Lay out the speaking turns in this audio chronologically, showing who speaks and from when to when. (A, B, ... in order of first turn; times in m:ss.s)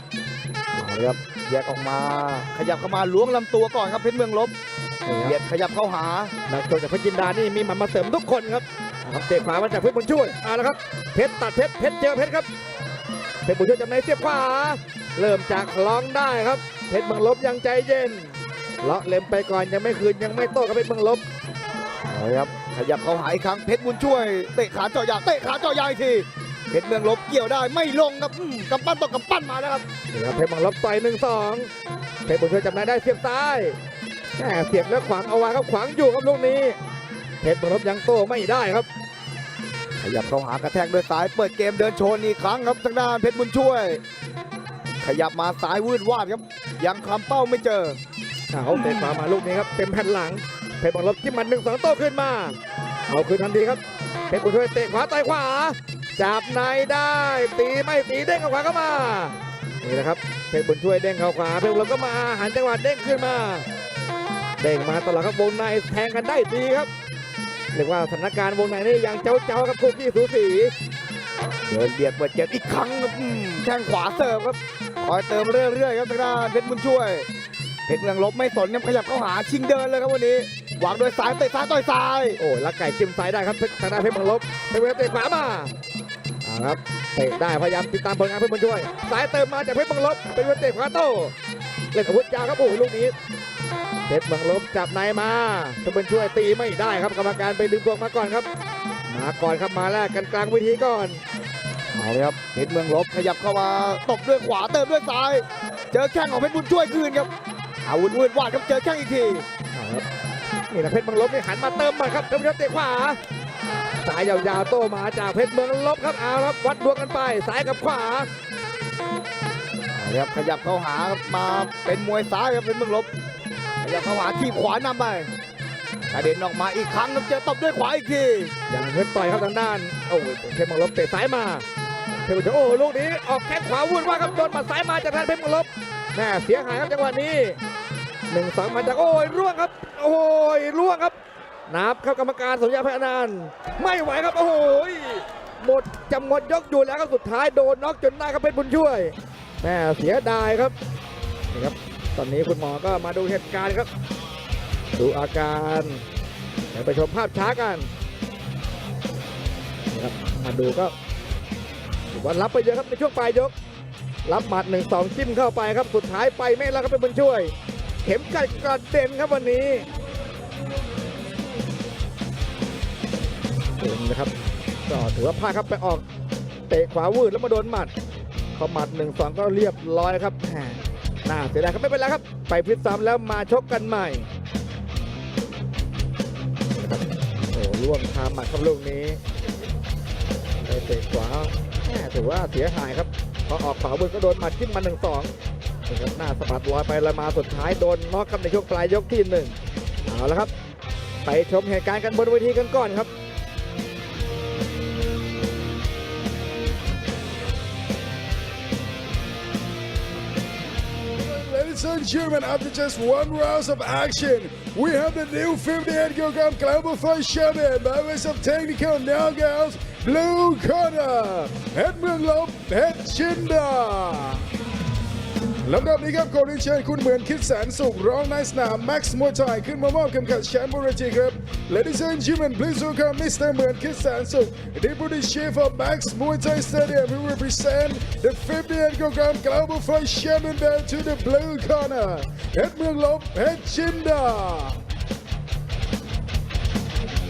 0:00.7-0:04.5 A
0:05.0-0:05.4 B
0:05.2-0:06.3 A
0:06.5-0:12.5 B
0:13.4-0:21.2 B
0:22.1-0:29.8 A
0:30.1-0:31.7 B
0:32.2-0:33.8 B
0:34.4-0:36.8 B
0:37.4-0:38.9 B
0:40.0-0:44.0 A
0:45.0-0:48.0 A
0:48.5-1:03.6 B
1:04.6-1:06.9 B
1:07.7-1:10.7 B
1:11.6-1:17.3 A
1:17.9-1:22.4 A
1:22.4-1:25.7 B
1:26.4-1:31.3 B
1:31.9-1:33.1 B
1:34.1-1:38.5 B
1:39.1-1:41.2 B
1:41.9-1:47.3 A
1:47.8-1:49.4 A
1:49.7-1:50.0 B
1:50.7-1:53.2 B
1:54.0-1:58.3 B
1:59.9-2:03.1 A
2:03.8-2:05.3 A
2:06.0-2:06.3 B
2:06.1-2:08.5 A
2:08.7-2:11.6 B
2:12.2-2:17.6 B
2:18.3-2:21.2 B
2:21.7-2:30.7 B
2:31.5-2:33.9 B
2:34.9-2:36.0 B
2:36.7-2:37.9 B
2:39.9-2:40.9 B
2:42.1-2:43.5 B
2:44.2-2:49.8 B
2:53.8-2:54.3 B
2:54.9-2:56.0 B
2:56.7-2:57.9 B
2:58.6-3:04.3 B
3:06.7-3:09.2 B
3:10.6-3:15.3 B
3:15.9-3:20.5 B
3:21.2-3:23.1 B
3:31.2-3:44.4 C
3:45.6-4:04.8 C